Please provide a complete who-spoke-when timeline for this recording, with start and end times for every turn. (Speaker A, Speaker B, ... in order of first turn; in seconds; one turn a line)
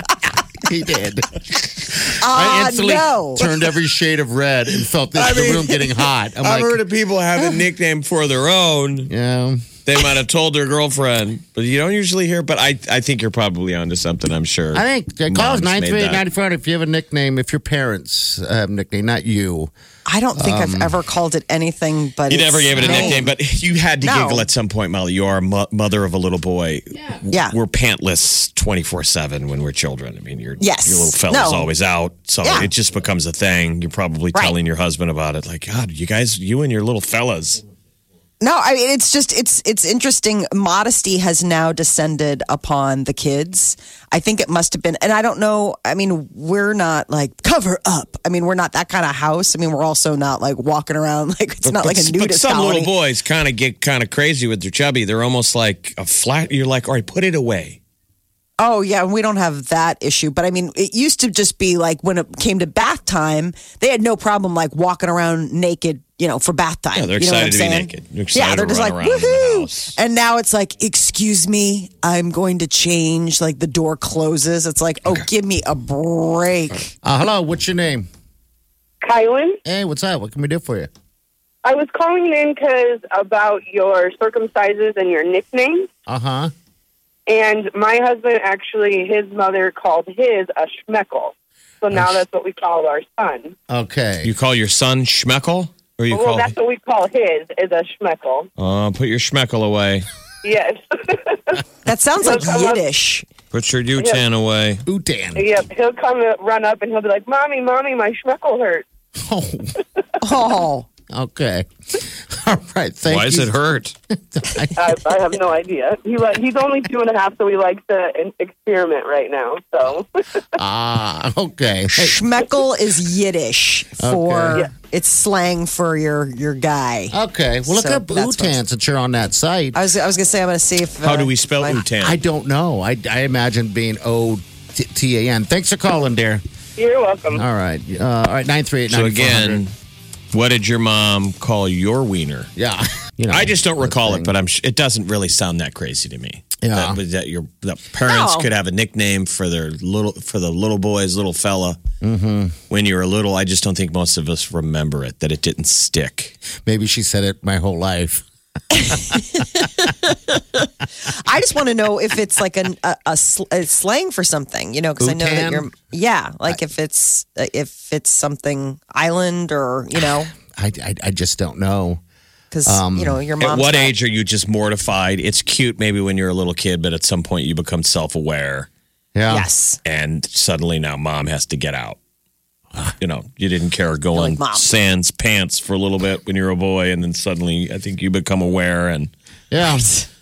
Speaker A: 0.6-6.8
Speaker B: 2.2-3.4
Speaker C: 5.2-9.1
Speaker A: 9.1-9.7
Speaker C: 9.9-16.2
Speaker A: 14.7-19.7
Speaker B: 20.1-23.3
Speaker A: 20.3-20.9
Speaker C: 22.3-37.6
Speaker A: 22.8-23.2
Speaker B: 24.0-24.5
Speaker B: 27.3-27.6
Speaker B: 30.6-31.7
Speaker B: 32.4-32.7
Speaker B: 38.4-53.0
Speaker C: 51.6-57.8
Speaker B: 58.6-76.9
Speaker C: 66.9-70.0
Speaker A: 77.0-78.1
Speaker D: 79.0-79.6
Speaker A: 79.7-80.9
Speaker D: 81.6-85.9
Speaker A: 86.1-86.5
Speaker D: 87.3-93.5
Speaker A: 91.9-92.2
Speaker A: 93.7-94.3
Speaker C: 94.2-96.5
Speaker D: 96.1-98.5
Speaker C: 98.6-100.1
Speaker D: 100.4-101.6
Speaker B: 101.8-103.3
Speaker D: 102.2-102.8
Speaker C: 103.5-104.8
Speaker A: 104.9-105.5
Speaker D: 105.4-108.8
Speaker A: 109.2-109.7
Speaker B: 110.2-110.9
Speaker A: 111.1-111.7
Speaker A: 112.3-113.6
Speaker C: 113.1-114.0
Speaker A: 114.3-115.0
Speaker D: 114.8-120.1
Speaker A: 120.6-122.2
Speaker B: 121.9-128.6
Speaker A: 124.0-124.6
Speaker A: 127.1-129.8
Speaker B: 129.7-131.8
Speaker C: 131.0-132.2
Speaker A: 132.0-136.4
Speaker D: 136.8-137.4
Speaker A: 137.3-139.6
Speaker C: 138.9-139.7
Speaker C: 140.3-142.5
Speaker A: 142.6-144.4
Speaker C: 143.3-151.8
Speaker A: 146.6-147.0
Speaker B: 148.0-148.5
Speaker A: 152.0-152.6
Speaker C: 152.7-156.4
Speaker A: 156.6-158.2
Speaker A: 158.8-159.8
Speaker B: 159.6-170.3
Speaker A: 165.0-165.7
Speaker A: 170.5-172.0
Speaker B: 172.5-173.9
Speaker A: 172.7-173.2
Speaker C: 173.4-178.7
Speaker A: 179.2-179.5
Speaker B: 179.3-179.8
Speaker C: 179.8-182.0
Speaker C: 183.0-189.1
Speaker B: 184.1-184.7
Speaker A: 189.5-189.9
Speaker B: 189.8-190.1